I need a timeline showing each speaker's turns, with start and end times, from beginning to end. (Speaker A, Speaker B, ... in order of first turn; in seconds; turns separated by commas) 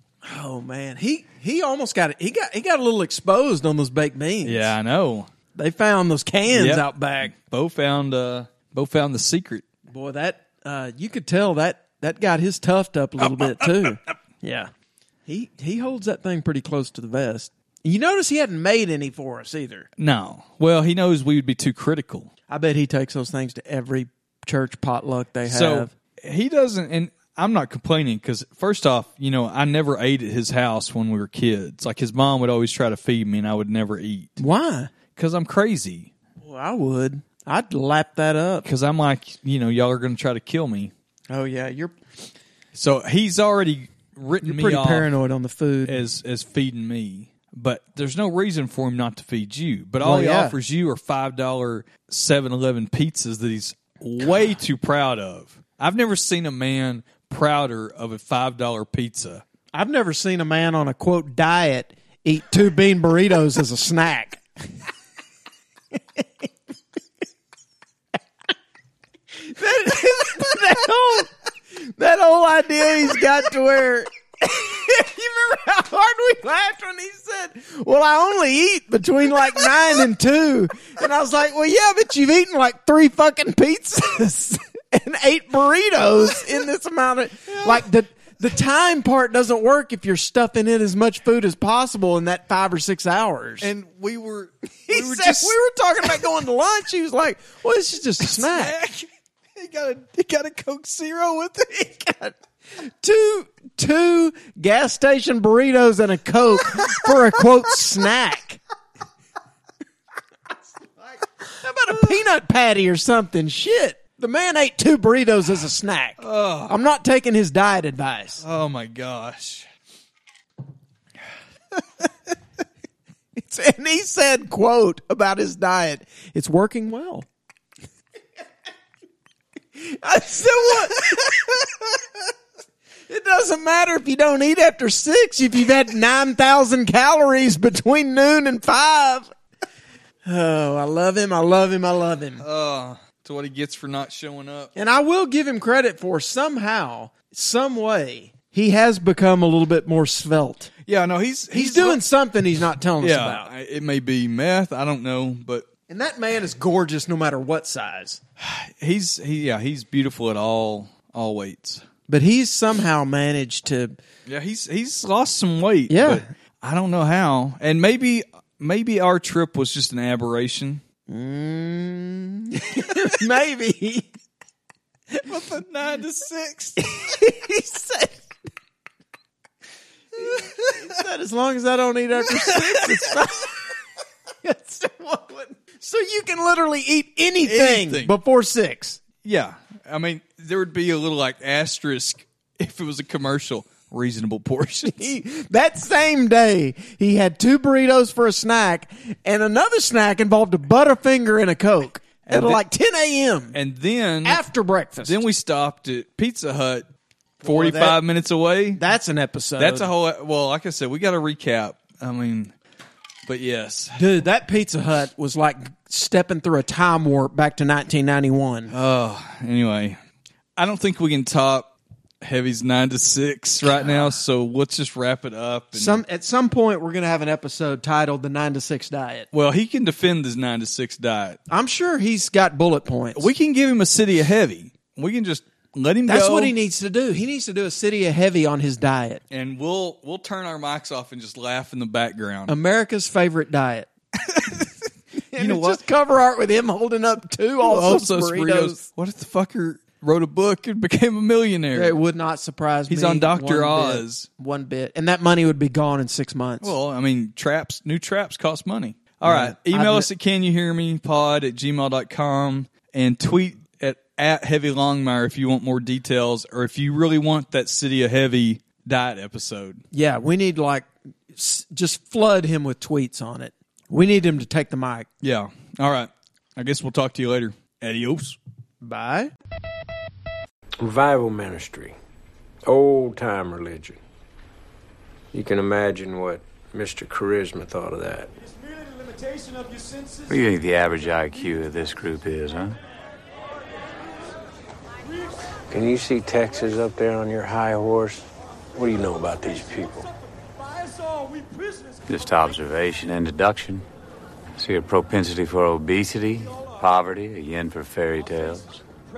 Speaker A: 0.2-4.7, Speaker B: 4.4-5.3, Speaker A: 5.5-7.3, Speaker B: 6.5-9.7, Speaker A: 9.9-14.7, Speaker B: 13.2-14.0, Speaker A: 15.3-19.9, Speaker B: 20.0-22.3, Speaker A: 22.5-25.9, Speaker B: 25.5-34.4, Speaker A: 34.4-34.9, Speaker B: 35.1-36.1, Speaker A: 36.4-38.7, Speaker B: 38.6-40.9, Speaker A: 41.3-41.9, Speaker B: 42.7-45.1, Speaker A: 44.4-46.0, Speaker B: 45.9-59.4, Speaker A: 50.0-50.6, Speaker A: 59.7-64.4, Speaker A: 69.5-71.3, Speaker A: 71.8-93.7, Speaker B: 87.5-87.8, Speaker B: 93.6-95.6, Speaker A: 94.9-98.8, Speaker B: 98.2-101.7, Speaker A: 101.7-108.6, Speaker A: 111.6-118.4, Speaker B: 116.2-116.8, Speaker B: 118.4-119.7, Speaker A: 123.4-127.3, Speaker A: 129.8-131.6, Speaker A: 133.1-139.3, Speaker A: 140.2-142.4, Speaker B: 142.4-144.7, Speaker A: 144.8-150.7, Speaker B: 150.9-152.0, Speaker A: 151.5-153.5, Speaker B: 153.0-155.7, Speaker A: 155.9-158.2, Speaker B: 158.4-161.8, Speaker A: 162.1-164.0, Speaker B: 164.3-170.8, Speaker A: 165.9-166.3, Speaker A: 171.1-174.1, Speaker B: 175.2-176.9, Speaker A: 176.8-178.2, Speaker A: 180.2-183.5, Speaker B: 182.4-183.2, Speaker A: 184.4-189.0, Speaker B: 187.4-188.1, Speaker B: 189.2-195.2, Speaker A: 194.9-203.6, Speaker B: 202.2-202.6, Speaker B: 203.5-204.4, Speaker A: 204.2-205.2, Speaker B: 205.0-206.9, Speaker A: 207.4-208.0, Speaker B: 207.4-208.8, Speaker A: 208.8-209.9, Speaker B: 209.6-212.5, Speaker B: 213.3-214.0, Speaker A: 214.0-218.7, Speaker B: 218.7-220.0, Speaker B: 220.6-221.7, Speaker B: 222.2-226.0, Speaker A: 225.8-229.3, Speaker B: 229.3-231.4, Speaker A: 231.5-233.3, Speaker B: 233.2-236.6, Speaker A: 236.1-239.2, Speaker B: 239.3-242.6, Speaker A: 242.5-243.9, Speaker B: 244.3-244.7, Speaker A: 245.3-248.9, Speaker B: 245.3-245.8, Speaker B: 247.6-252.0, Speaker A: 251.7-256.8, Speaker B: 252.9-254.3, Speaker B: 256.6-269.8, Speaker A: 259.2-260.1, Speaker A: 269.9-275.1, Speaker B: 275.2-278.4, Speaker A: 278.8-279.3, Speaker C: 280.8-281.9, Speaker C: 282.7-284.0, Speaker C: 285.3-288.3, Speaker D: 290.3-292.8, Speaker C: 295.7-300.1, Speaker D: 302.1-303.9, Speaker D: 304.6-308.8